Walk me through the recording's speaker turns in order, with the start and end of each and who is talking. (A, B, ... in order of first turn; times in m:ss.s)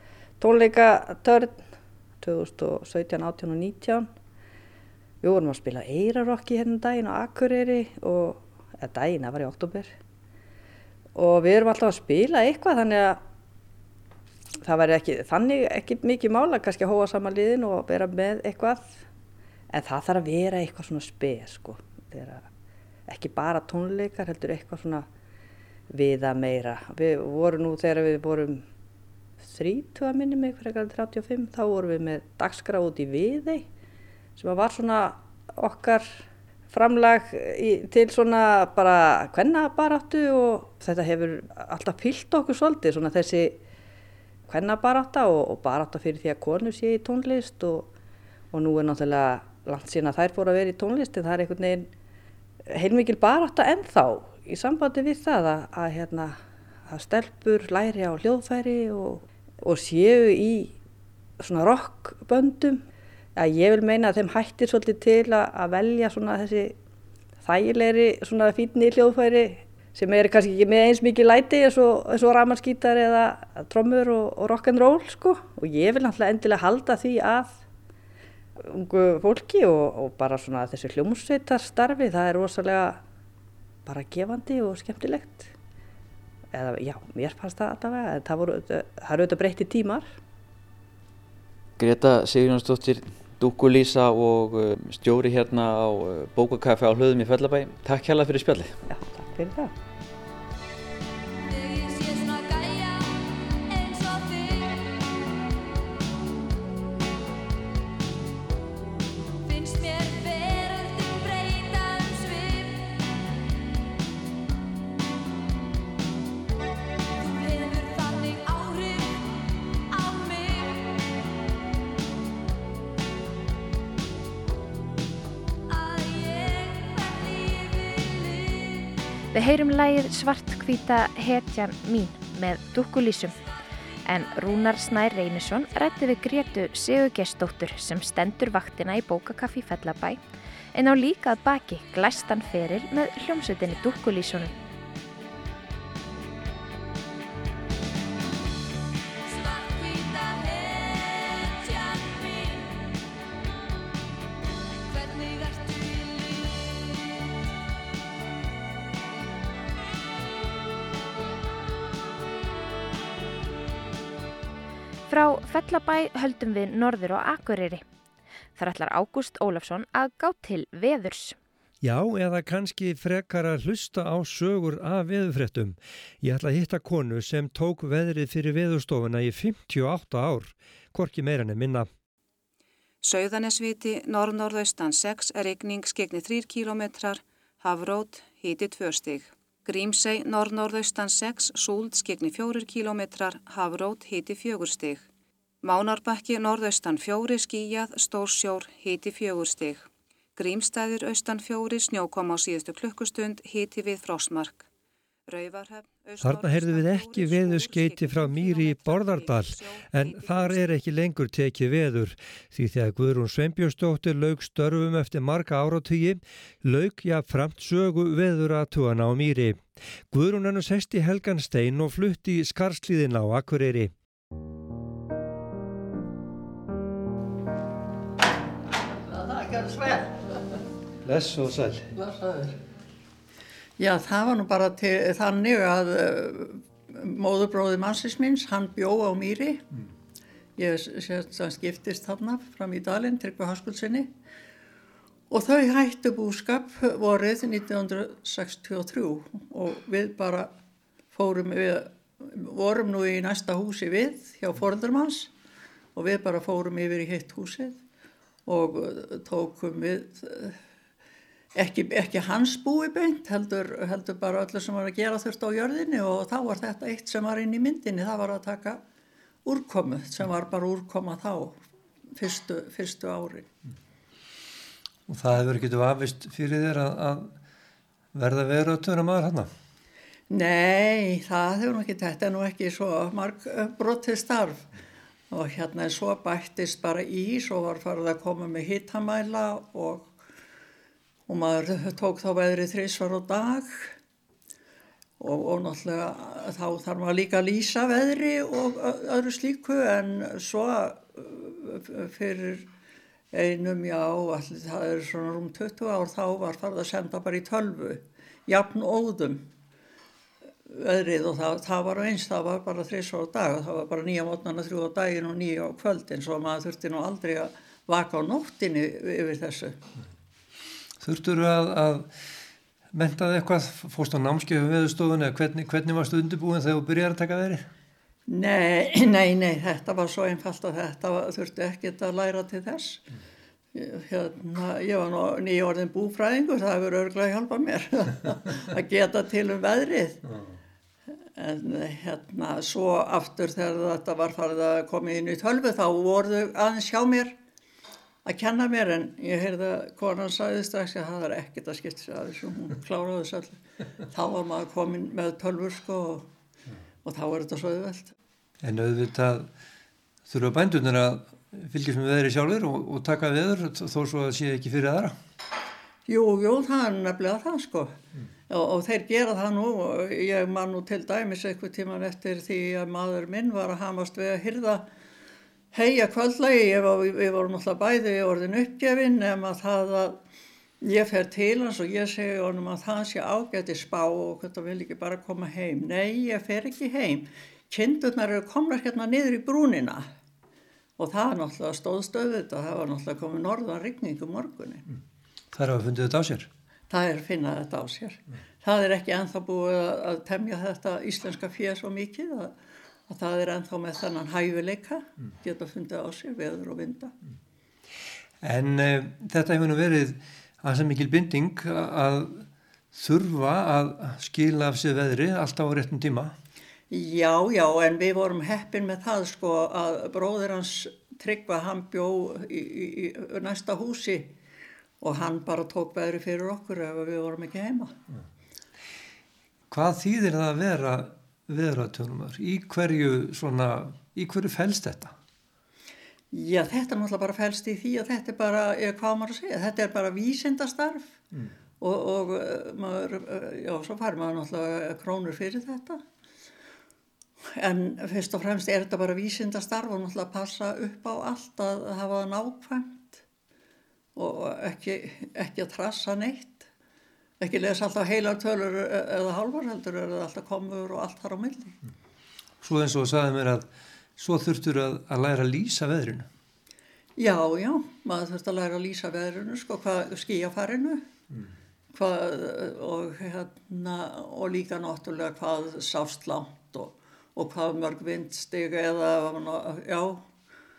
0:00.4-0:01.6 A
0:02.2-0:04.1 A
0:05.2-0:09.9 A
0:11.1-0:13.2 A
0:14.6-0:19.0 A
0:19.7-0:22.5 A
0:23.1-0:25.0 A
0:25.9-0:28.6 A
0:29.4-0:33.7 A
0:34.4-0:43.6 A
0:44.5-0:47.9 A
0:48.5-0:51.9 A
0:52.7-1:00.7 A
1:01.4-1:02.8 A
1:03.4-1:06.7 A
1:07.4-1:17.6 A
1:18.6-1:23.0 A
1:23.8-1:25.5 A
1:26.5-1:30.1 A
1:31.8-1:38.8 B
1:38.9-1:39.7 A
1:41.8-1:42.7 A
1:49.5-1:52.7 A
1:57.3-1:58.8 A
2:00.0-2:00.5 A
2:05.8-2:08.8 A
2:09.3-2:13.4 C
2:14.0-2:20.2 C
2:20.7-2:24.5 C
2:45.1-2:47.8 C
2:48.6-2:51.4 C
2:51.8-3:01.9 D
3:03.0-3:15.0 E
3:15.6-3:24.7 E
3:25.3-3:30.8 E
3:26.2-3:43.9 D
3:49.1-3:50.4 F
3:51.0-3:51.9 D
3:51.9-3:52.6 F
3:53.8-3:59.6 F
4:00.6-4:04.1 F
4:05.3-4:10.5 F
4:11.1-4:15.3 F
4:15.9-4:17.8 F
4:18.4-4:20.6 F
4:21.5-4:28.8 F
4:29.4-4:31.6 F
4:32.1-4:33.5 F
4:35.1-4:37.3 D
4:38.1-4:39.5 D
4:40.3-4:44.7 F
4:45.3-4:50.1 F
4:51.3-4:53.9 F
4:55.2-5:02.7 F
5:03.3-5:09.4 F
5:10.7-5:19.8 F
5:21.0-5:22.1 D
5:22.9-5:27.6 D
5:28.3-5:33.0 F
5:33.7-5:40.2 F
5:41.4-5:47.4 F
5:48.2-5:56.3 F
5:57.0-5:58.1 F
5:58.6-5:59.5 D
6:00.3-6:05.1 D
6:06.1-6:07.9 F
6:08.5-6:14.8 F
6:15.7-6:20.2 F
6:20.8-6:30.0 F
6:31.0-6:34.8 F
6:35.5-6:36.5 D
6:36.9-6:42.5 F
6:43.1-6:47.1 F
6:48.4-6:56.3 D
6:56.9-7:04.3 F
7:05.0-7:07.9 F
7:09.7-7:15.1 D
7:16.3-7:21.2 F
7:21.8-7:26.0 F
7:27.6-7:33.2 F
7:34.2-7:36.7 F
7:37.4-7:41.8 F
7:42.6-7:46.3 D
7:47.2-7:51.0 F
7:51.9-8:00.3 F